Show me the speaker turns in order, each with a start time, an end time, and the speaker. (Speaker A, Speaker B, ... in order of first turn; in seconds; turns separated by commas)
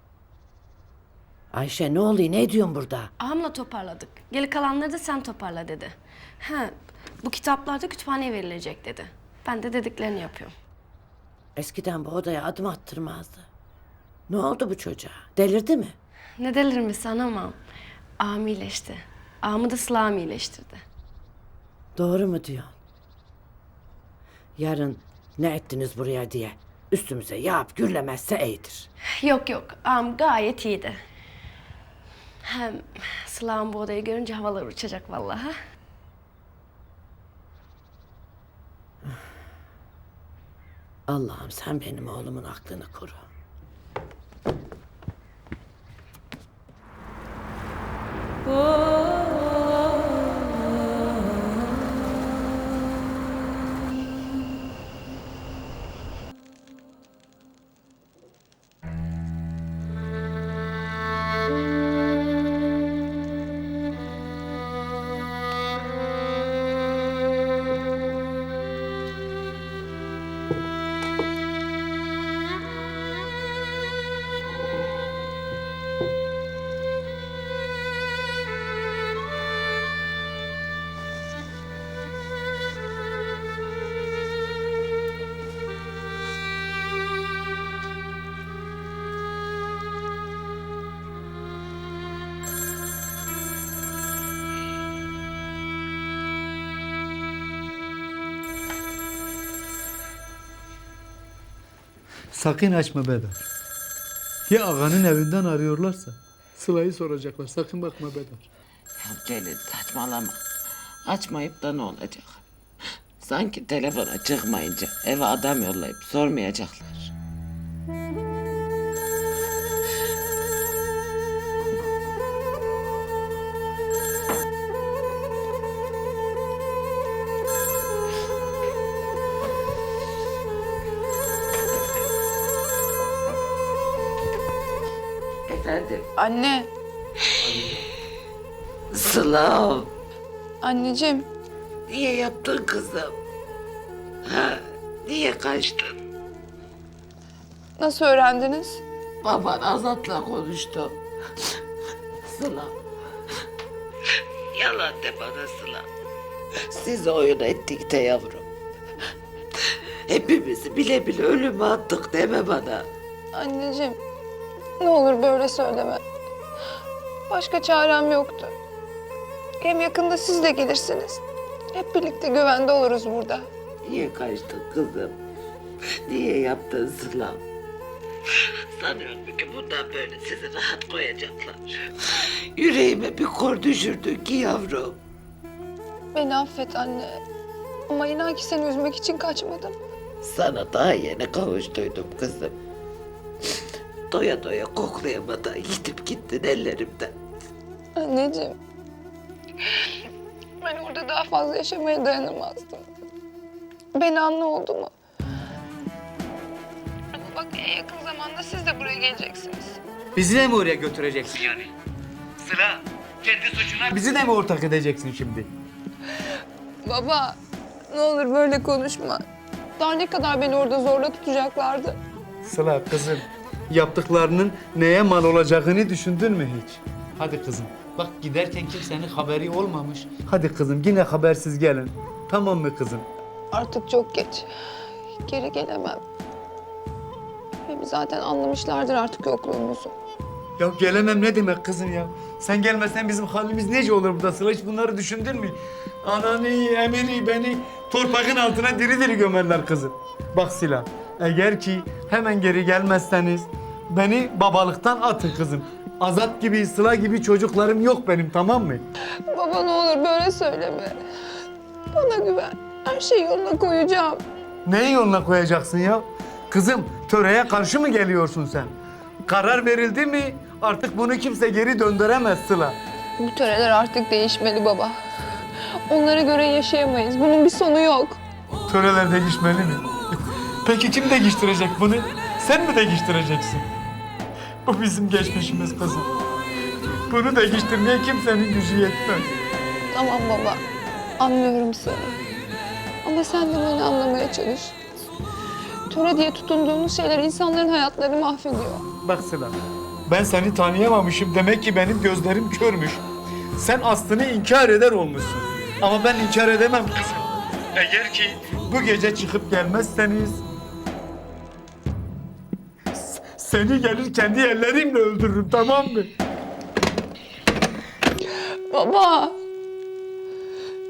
Speaker A: 1.5-3.1, Speaker B: 3.2-10.5, Speaker A: 11.6-13.5, Speaker A: 14.3-16.0, Speaker B: 16.4-17.6, Speaker B: 18.2-20.8, Speaker A: 22.0-22.8, Speaker A: 24.6-28.9, Speaker B: 29.2-31.0, Speaker B: 32.4-35.5, Speaker A: 41.1-43.3, Speaker C: 102.3-103.4, Speaker C: 104.5-108.5, Speaker D: 109.0-110.4, Speaker D: 111.1-112.4, Speaker D: 113.2-117.1, Speaker D: 135.5-136.1, Speaker E: 136.2-136.7, Speaker D: 137.4-137.8, Speaker D: 138.9-139.9, Speaker E: 140.6-141.3, Speaker D: 141.9-143.2, Speaker D: 144.2-146.0, Speaker E: 147.8-148.8, Speaker D: 149.2-151.0, Speaker D: 152.3-152.7, Speaker D: 154.6-155.9, Speaker D: 156.7-158.5, Speaker D: 160.1-162.9, Speaker E: 163.3-164.0, Speaker E: 164.8-166.0, Speaker E: 167.3-168.5, Speaker E: 169.6-171.2, Speaker E: 171.7-173.5, Speaker D: 173.8-175.2, Speaker D: 176.1-177.4, Speaker D: 178.8-185.0, Speaker E: 186.1-187.2, Speaker E: 187.9-189.8, Speaker D: 190.2-192.6, Speaker D: 194.1-197.1, Speaker E: 198.0-198.6, Speaker E: 200.6-202.8, Speaker E: 203.9-204.9, Speaker E: 207.1-209.8, Speaker C: 210.2-211.7, Speaker C: 212.4-215.5, Speaker E: 216.8-217.4, Speaker E: 217.9-219.2, Speaker E: 219.8-222.0, Speaker C: 222.4-233.1, Speaker E: 233.5-234.5, Speaker E: 235.2-236.0, Speaker E: 237.7-239.9, Speaker C: 240.6-258.8, Speaker E: 259.3-261.0, Speaker E: 261.9-264.2, Speaker C: 264.7-268.7, Speaker C: 269.3-272.8, Speaker E: 273.2-275.0, Speaker E: 275.9-278.2, Speaker C: 278.7-279.9, Speaker C: 280.6-283.7, Speaker C: 284.7-286.1, Speaker C: 287.1-289.3, Speaker E: 289.9-290.6, Speaker E: 291.2-292.2, Speaker E: 293.0-294.8, Speaker E: 295.9-298.9, Speaker C: 299.0-303.0, Speaker C: 303.6-310.4, Speaker C: 312.9-316.1, Speaker E: 318.7-319.4